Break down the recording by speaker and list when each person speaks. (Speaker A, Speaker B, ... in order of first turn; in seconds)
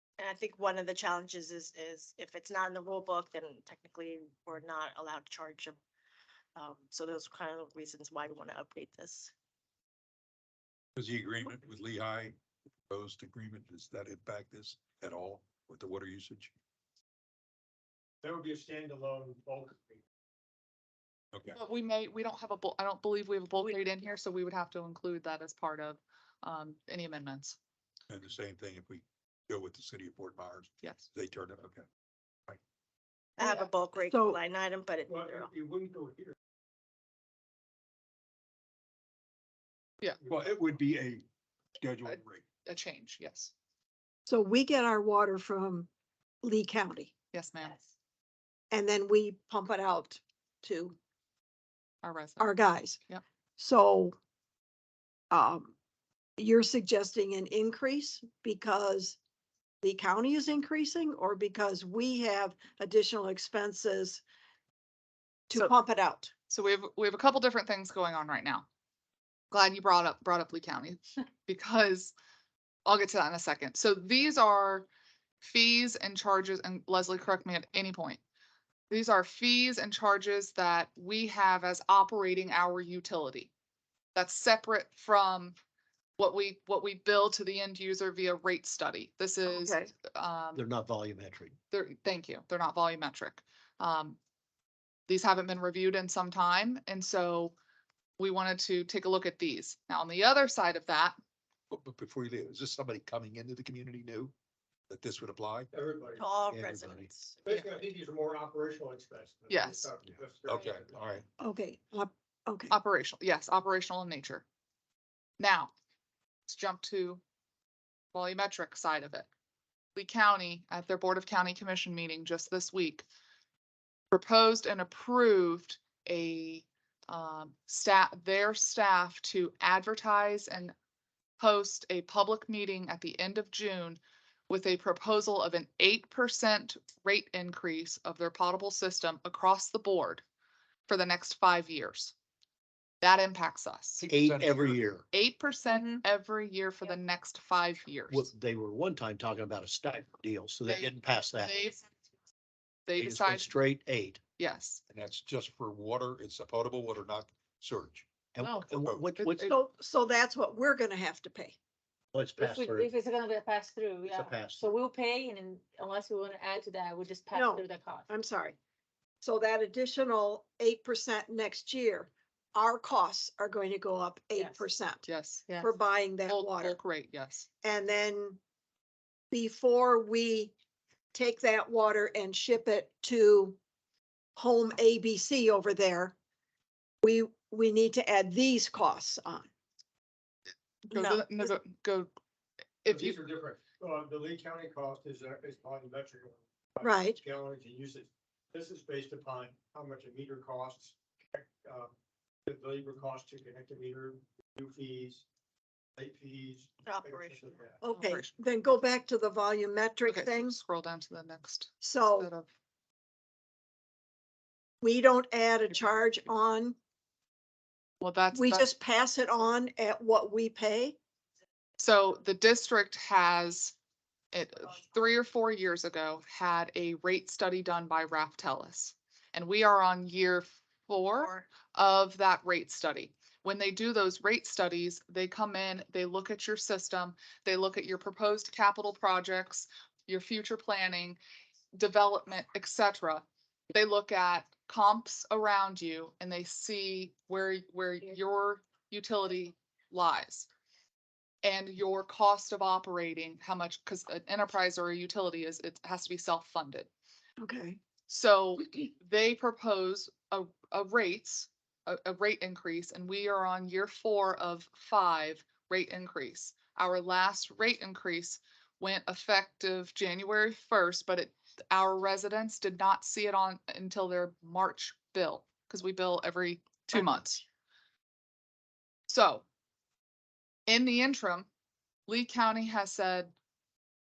Speaker A: 0.2-5.8, 6.5-9.3, 33.4-35.5, 106.2-107.4, 190.9-191.5, 206.8-207.6, 231.2-231.4
Speaker B: 10.9-12.3, 12.9-16.5, 21.3-21.6, 28.1-31.8, 40.3-41.2, 41.8-42.4, 101.7-104.3, 104.9-105.7, 110.5-111.2, 144.0-144.8, 154.9-158.2, 158.7-159.1
Speaker C: 18.2-20.0, 35.1-36.3, 105.7-106.3, 107.4-111.0, 192.8-201.9, 202.4-205.2, 206.0-207.8
Speaker D: 21.5-27.6, 30.8-31.1, 42.0-43.5, 47.3-47.8, 52.0-53.2, 66.5-68.7, 69.5-72.1, 72.8-74.9, 75.4-78.2, 78.9-83.5, 84.1-85.5, 86.2-90.6, 91.7-94.2, 95.1-97.5, 98.2-101.2, 109.5-109.9, 112.7-114.5, 115.4-115.7, 116.5-117.2, 118.1-119.3, 119.9-123.0, 124.1-130.7, 131.4-140.2, 140.9-142.1, 143.0-144.1, 145.1-148.3, 150.7-151.8, 152.8-153.6, 154.4-154.8, 158.4-159.6, 175.1-175.5, 176.3-177.5, 190.9-192.1, 192.8-193.2, 207.9-208.3, 210.1-212.5, 218.0-218.7, 221.8-223.7, 224.3-241.2, 241.7-250.5, 251.4-256.9, 258.1-277.4, 279.1-279.4, 280.7-281.5, 282.1-283.3
Speaker E: 34.0-34.4, 44.2-45.9, 46.4-47.1, 48.7-51.0, 52.4-53.0, 53.6-54.1, 55.3-55.7, 56.4-59.2, 59.8-64.2, 65.5-66.3, 89.5-89.9, 111.4-112.7, 159.4-161.6, 167.3-168.6, 169.2-175.0, 175.6-176.8, 177.6-178.4, 179.3-180.5, 181.1-183.6, 184.3-186.1, 187.0-189.5, 196.8-197.2, 207.8-210.6, 211.8-212.3, 214.8-216.8, 218.3-221.0, 257.4-257.8
Speaker F: 90.5-91.5, 106.5-107.1, 144.1-145.0, 148.1-151.6, 153.0-154.2, 158.3-159.5, 162.1-162.9, 164.0-164.7
Speaker G: 162.4-168.1, 174.3-174.7, 175.5-175.7